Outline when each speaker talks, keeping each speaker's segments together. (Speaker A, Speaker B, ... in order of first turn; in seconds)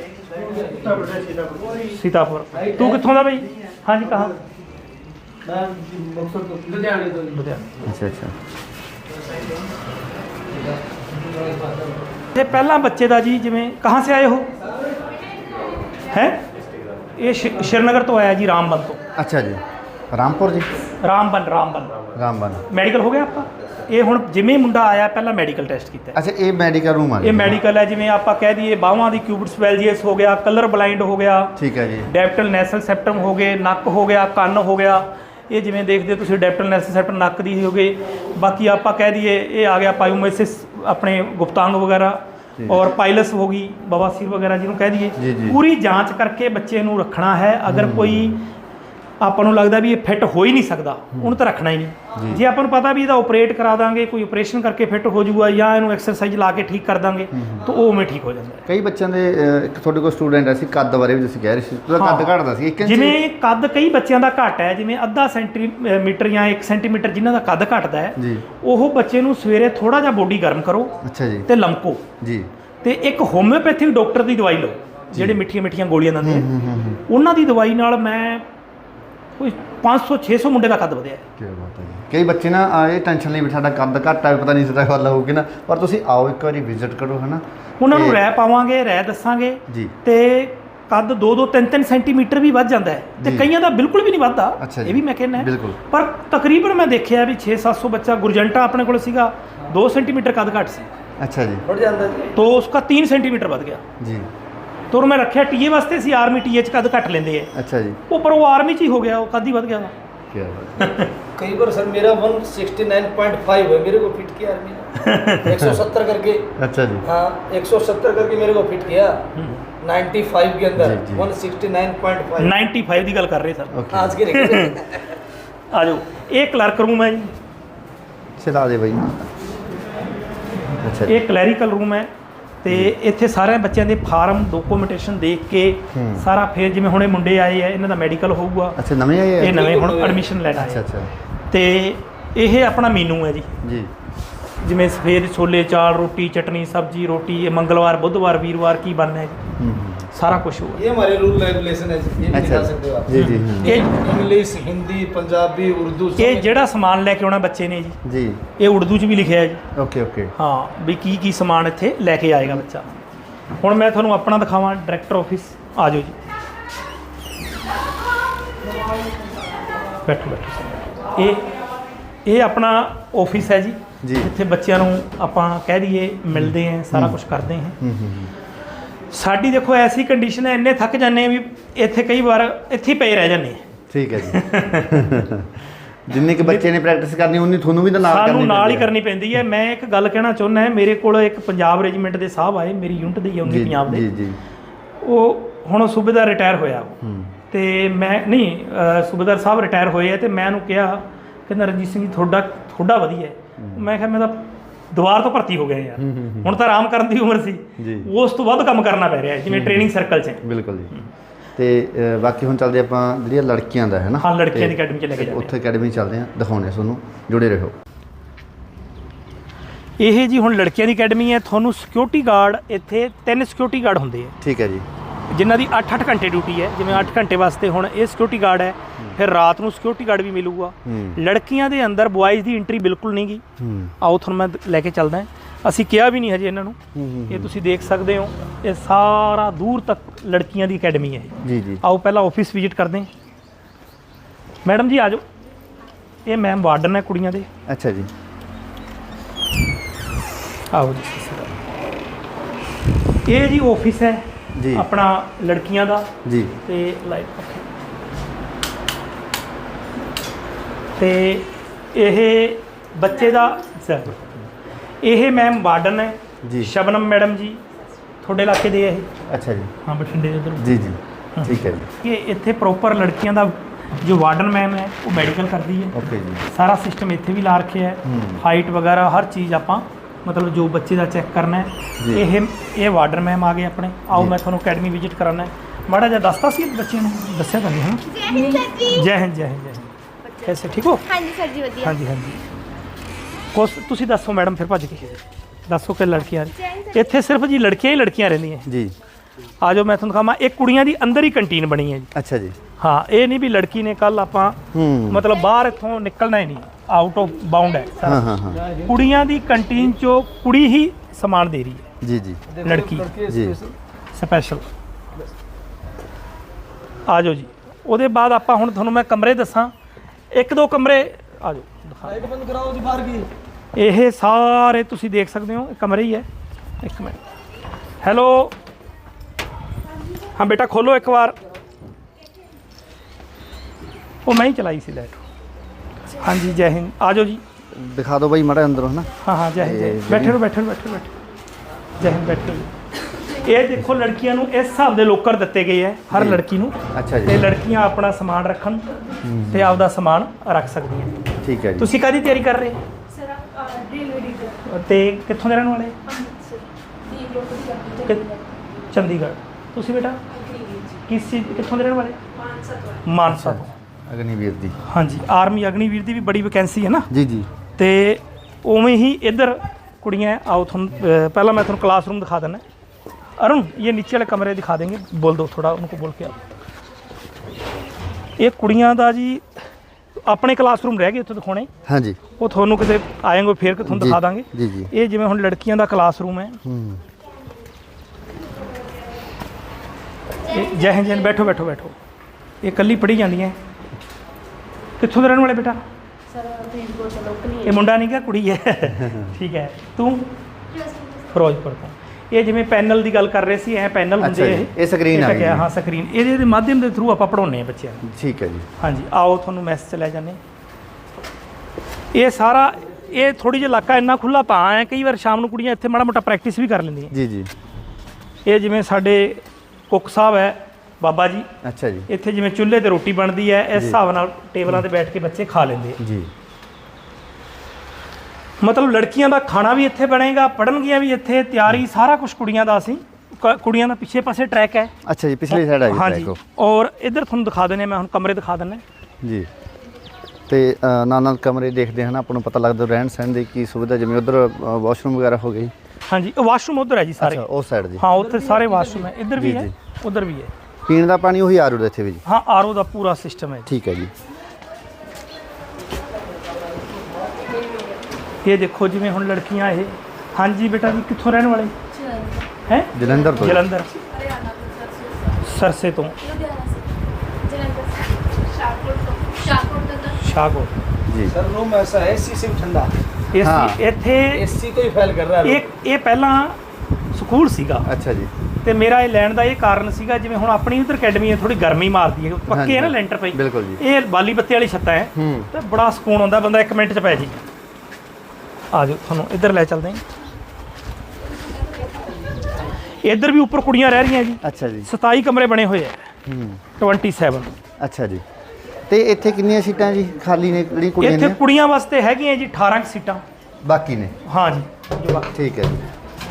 Speaker A: 0.3-1.8, 2.5-3.1, 5.5-7.4, 10.5-12.0, 101.7-102.2, 111.4-114.9, 115.4-119.2, 119.8-122.6, 123.9-125.0, 139.4-140.3, 150.8-156.5, 308.5-309.1, 312.5-313.8, 322.1-323.3, 448.1-449.1, 471.3-472.9, 474.3-475.7
Speaker B: 1.9-4.3, 7.3-7.7, 12.3-14.5, 16.1-16.4, 17.2-19.0, 21.0-21.9, 22.7-26.2, 27.2-31.6, 32.1-48.5, 49.2-58.6, 62.0-71.0, 71.5-72.0, 72.8-76.5, 77.1-78.5, 79.4-81.2, 87.8-100.9, 102.3-103.8, 104.9-107.5, 108.1-109.9, 110.8-111.1, 115.0-115.5, 119.4-119.6, 122.4-123.8, 124.3-124.8, 125.7-127.3, 131.1-132.1, 132.6-138.8, 139.4-140.8, 141.5-143.6, 144.6-149.4, 150.1-150.8, 153.2-153.9, 156.2-158.0, 158.6-159.6, 160.4-163.0, 163.6-166.2, 170.1-171.5, 172.3-177.8, 179.1-183.7, 184.2-185.1, 188.0-194.1, 195.0-197.0, 197.5-211.1, 214.2-215.5, 220.0-224.3, 225.3-233.4, 234.0-236.8, 237.3-243.1, 244.7-245.2, 246.3-247.5, 250.7-251.5, 253.2-256.1, 256.6-257.7, 261.0-264.5, 265.0-267.6, 268.2-269.1, 269.9-270.8, 271.4-276.0, 276.5-289.9, 290.4-291.1, 291.8-292.4, 293.5-298.7, 299.6-302.1, 302.8-308.3, 308.9-311.9, 312.6-313.1, 314.1-314.7, 317.1-319.7, 320.3-322.3, 323.8-326.3, 326.8-327.2, 328.0-328.6, 330.4-331.4, 334.2-335.2, 336.1-337.4, 339.2-341.1, 342.0-348.9, 349.5-351.1, 351.8-352.8, 354.6-356.0, 358.9-360.2, 361.1-362.2, 363.1-363.7, 364.9-367.1, 367.8-372.6, 373.4-376.4, 378.4-379.6, 380.2-381.7, 382.4-386.6, 390.5-391.9, 392.6-393.6, 395.0-395.8, 397.6-400.3, 401.3-408.0, 408.8-410.4, 412.1-417.1, 418.5-421.5, 422.1-426.0, 428.6-434.9, 435.5-438.8, 446.1-447.4, 448.0-450.5, 452.2-453.7, 458.4-461.8, 462.7-463.9, 465.4-466.2, 470.2-470.8, 473.3-474.5, 475.4-476.6, 477.1-477.9, 478.6-487.4, 488.7-490.0, 493.0-496.1, 496.8-497.5, 501.0-503.2, 504.2-505.3
Speaker C: 7.8-8.3, 19.1-20.7, 22.1-22.6, 26.1-27.6, 31.6-32.1, 42.6-42.9, 45.2-45.6, 47.7-48.4, 52.2-52.4, 57.3-57.7, 58.7-63.2, 68.2-68.4, 71.0-71.5, 72.2-72.5, 75.1-75.4, 76.2-77.0, 81.4-88.2, 89.7-89.9, 93.2-93.5, 94.6-95.8, 101.2-101.7, 104.0-104.3, 107.5-108.0, 110.3-110.9, 116.6-117.1, 120.8-121.3, 123.7-124.2, 128.4-129.3, 130.8-131.2, 132.7-132.9, 135.9-136.3, 138.8-139.8, 140.5-141.1, 143.6-143.9, 149.6-150.1, 152.3-153.8, 158.0-158.4, 159.8-160.3, 174.0-174.3, 176.3-177.2, 177.8-178.3, 183.9-188.9, 193.4-194.4, 197.0-197.3, 203.6-203.9, 206.0-206.6, 207.8-208.1, 209.5-210.9, 211.6-217.8, 224.4-224.9, 230.8-231.2, 233.6-233.9, 236.9-237.6, 241.4-241.8, 247.7-248.1, 254.6-254.9, 256.2-256.5, 266.4-266.7, 269.3-269.7, 270.6-271.9, 275.9-276.5, 278.1-278.4, 282.0-282.3, 284.1-284.4, 298.7-298.9, 302.1-302.6, 304.7-305.3, 308.0-308.6, 312.0-312.4, 313.3-313.6, 337.7-340.4, 346.1-347.5, 349.2-349.8, 351.4-351.9, 363.2-364.8, 367.1-367.5, 381.9-382.2, 383.8-384.9, 386.6-387.0, 398.9-399.4, 404.2-405.7, 408.0-408.7, 417.1-417.5, 421.6-422.1, 426.0-426.3, 435.1-436.4, 439.2-439.5, 440.5-445.7, 447.2-448.1, 449.4-449.7, 450.9-452.2, 453.7-454.1, 462.9-463.7, 471.1-471.4, 473.4-473.8, 477.9-478.3, 482.5-483.8, 485.1-485.5, 494.4-494.9, 496.3-496.6, 497.8-498.2, 498.9-501.4, 503.6-504.2, 505.3-505.8
Speaker D: 263.1-263.6, 288.1-289.1, 290.2-292.0, 296.6-297.2, 353.1-354.6, 356.1-358.4, 360.3-361.0, 362.3-363.0, 390.5-391.5, 400.7-401.3, 457.5-457.9, 461.9-465.4, 466.2-470.2